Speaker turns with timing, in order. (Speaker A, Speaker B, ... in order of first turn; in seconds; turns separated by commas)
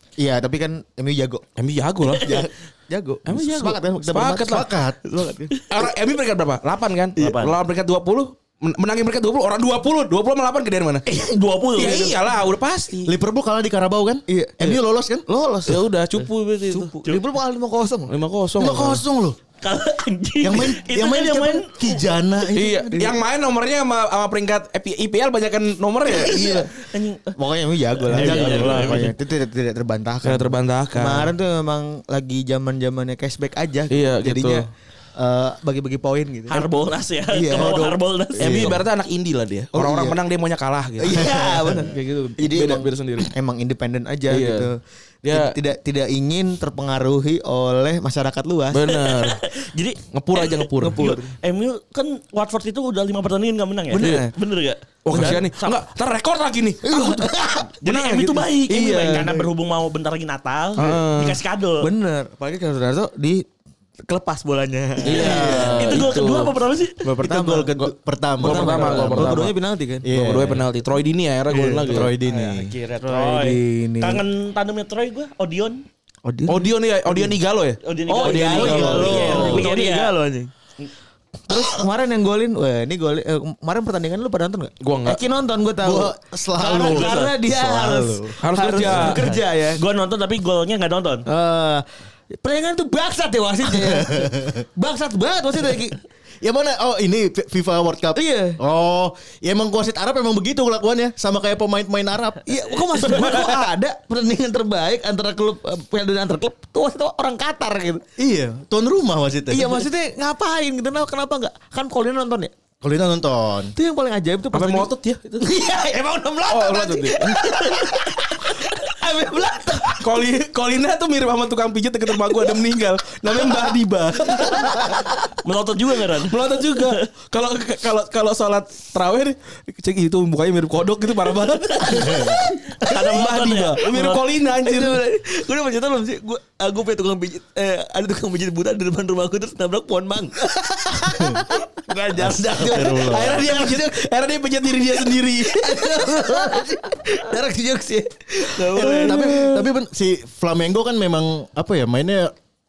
Speaker A: 0.2-1.4, Speaker B: 1.6-2.4, Speaker C: 2.1-2.4, Speaker A: 2.1-5.5, Speaker B: 3.2-4.7, Speaker D: 4.4-5.0, Speaker B: 5.7-11.0, Speaker C: 7.2-7.5, Speaker C: 11.1-12.2, Speaker B: 11.8-13.1, Speaker D: 13.1-15.2, Speaker A: 14.3-15.8, Speaker B: 15.7-16.9, Speaker A: 16.7-18.1, Speaker B: 18.1-19.0, Speaker D: 18.6-19.4, Speaker C: 19.6-22.1, Speaker D: 20.4-23.1, Speaker B: 22.5-26.4, Speaker C: 26.1-27.3, Speaker A: 26.1-26.7, Speaker A: 27.3-36.7, Speaker C: 28.1-29.1, Speaker D: 28.1-29.0, Speaker B: 28.2-29.0, Speaker B: 30.2-31.3, Speaker B: 33.9-34.6, Speaker C: 36.5-38.6, Speaker A: 37.3-38.0, Speaker D: 38.4-38.8, Speaker B: 38.4-43.3, Speaker A: 39.7-40.2, Speaker A: 41.0-48.8, Speaker B: 44.3-44.7, Speaker B: 45.2-45.5, Speaker B: 48.7-49.4, Speaker C: 48.9-55.8, Speaker B: 50.1-51.1, Speaker A: 50.8-51.4, Speaker A: 53.9-54.3, Speaker B: 54.0-54.3, Speaker B: 55.0-57.1, Speaker A: 55.1-55.4, Speaker A: 56.8-58.2, Speaker C: 57.8-61.9, Speaker B: 57.8-59.3, Speaker A: 58.8-59.5, Speaker B: 60.8-61.4, Speaker A: 61.8-63.4, Speaker A: 64.1-66.1, Speaker B: 65.0-66.5, Speaker C: 65.1-67.1, Speaker D: 65.1-66.0, Speaker A: 67.0-70.4, Speaker D: 67.2-69.5, Speaker B: 68.4-69.5, Speaker D: 70.0-70.6, Speaker B: 70.1-72.2, Speaker A: 71.5-72.1, Speaker D: 71.5-72.7, Speaker C: 72.2-75.8, Speaker A: 73.0-74.2, Speaker A: 76.2-77.3, Speaker B: 76.5-79.7, Speaker C: 77.8-80.2, Speaker A: 78.1-80.5, Speaker D: 78.5-79.6, Speaker A: 81.5-89.8, Speaker B: 84.8-85.2, Speaker D: 85.8-89.3, Speaker C: 86.8-87.3, Speaker B: 88.4-89.2, Speaker C: 89.7-91.2, Speaker A: 91.2-96.0, Speaker D: 93.7-94.6, Speaker D: 96.4-103.5, Speaker A: 98.1-98.6, Speaker A: 102.4-108.0, Speaker D: 108.2-109.9, Speaker A: 109.5-112.5, Speaker D: 112.8-113.7, Speaker A: 113.7-120.1, Speaker B: 114.5-115.5, Speaker B: 116.5-117.4, Speaker C: 117.5-118.0, Speaker B: 120.0-125.0, Speaker C: 125.4-127.0, Speaker B: 126.2-135.0, Speaker C: 131.8-134.2, Speaker A: 133.9-143.9, Speaker D: 141.1-141.4, Speaker D: 142.1-143.4, Speaker B: 142.8-145.9, Speaker A: 145.4-149.7, Speaker D: 148.7-152.3